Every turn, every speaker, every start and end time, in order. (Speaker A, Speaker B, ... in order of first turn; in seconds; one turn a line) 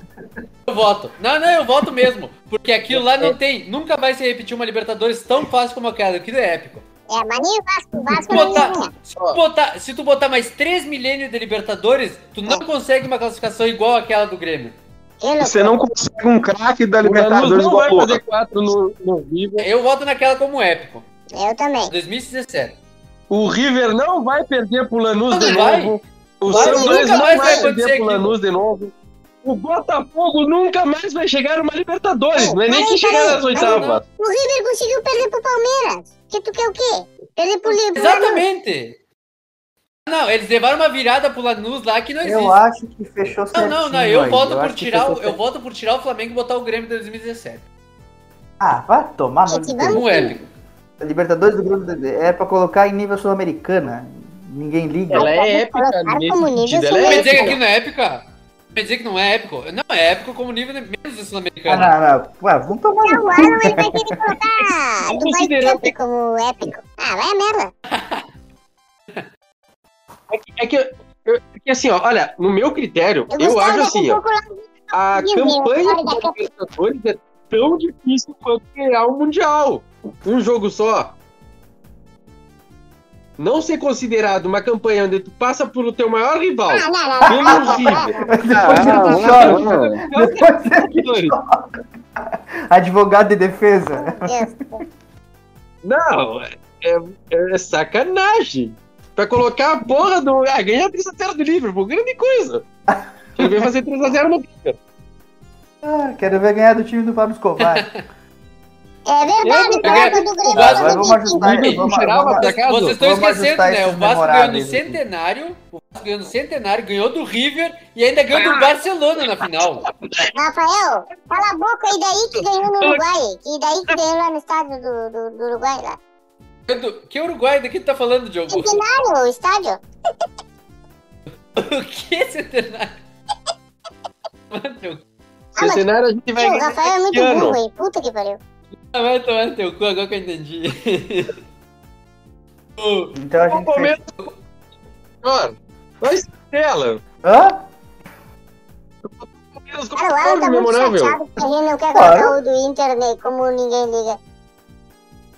Speaker A: 0.7-6.8
Speaker B: 2.9-3.3
Speaker C: 7.1-8.9
Speaker B: 8.2-8.6
Speaker A: 8.2-14.8
Speaker C: 15.2-15.8
Speaker D: 15.4-18.2
Speaker B: 17.0-19.7
Speaker A: 19.6-21.0
Speaker C: 21.3-21.9
Speaker A: 21.9-22.7
Speaker B: 23.3-28.9
Speaker A: 25.3-28.3
Speaker C: 26.5-27.6
Speaker E: 26.6-26.9
Speaker B: 29.4-34.0
Speaker C: 32.3-38.4
Speaker A: 33.1-34.0
Speaker A: 37.9-39.0
Speaker A: 40.1-42.6
Speaker E: 42.2-45.4
Speaker A: 43.5-47.6
Speaker E: 48.6-50.4
Speaker C: 49.5-50.1
Speaker A: 49.9-50.4
Speaker E: 51.0-55.4
Speaker C: 55.1-57.6
Speaker B: 55.1-57.6
Speaker A: 57.0-58.2
Speaker A: 58.7-61.9
Speaker E: 61.7-64.2
Speaker C: 63.0-67.7
Speaker B: 64.6-65.9
Speaker A: 67.9-68.2
Speaker B: 70.3-74.2
Speaker C: 73.3-76.4
Speaker B: 74.9-81.1
Speaker B: 83.4-91.3
Speaker C: 86.7-88.3
Speaker E: 87.2-91.7
Speaker D: 88.5-90.0
Speaker E: 92.2-94.8
Speaker C: 93.9-94.8
Speaker B: 95.8-102.6
Speaker E: 102.9-103.7
Speaker B: 103.4-104.8
Speaker E: 105.8-107.8
Speaker A: 107.6-108.0
Speaker C: 109.1-111.8
Speaker B: 109.4-113.0
Speaker A: 109.8-111.1
Speaker E: 110.5-115.0
Speaker A: 112.4-119.8
Speaker C: 118.3-118.7
Speaker C: 120.3-126.0
Speaker B: 122.6-123.0
Speaker A: 126.7-128.8
Speaker C: 128.5-129.8
Speaker A: 131.6-132.9
Speaker A: 134.5-135.0
Speaker C: 135.6-135.8
Speaker B: 135.6-137.6
Speaker C: 136.4-138.4
Speaker A: 138.9-141.3
Speaker A: 142.8-143.1
Speaker E: 143.1-144.0
Speaker B: 143.5-144.0
Speaker B: 145.2-147.0
Speaker E: 147.2-147.6
Speaker B: 149.0-151.2
Speaker C: 149.9-154.2
Speaker E: 151.9-152.3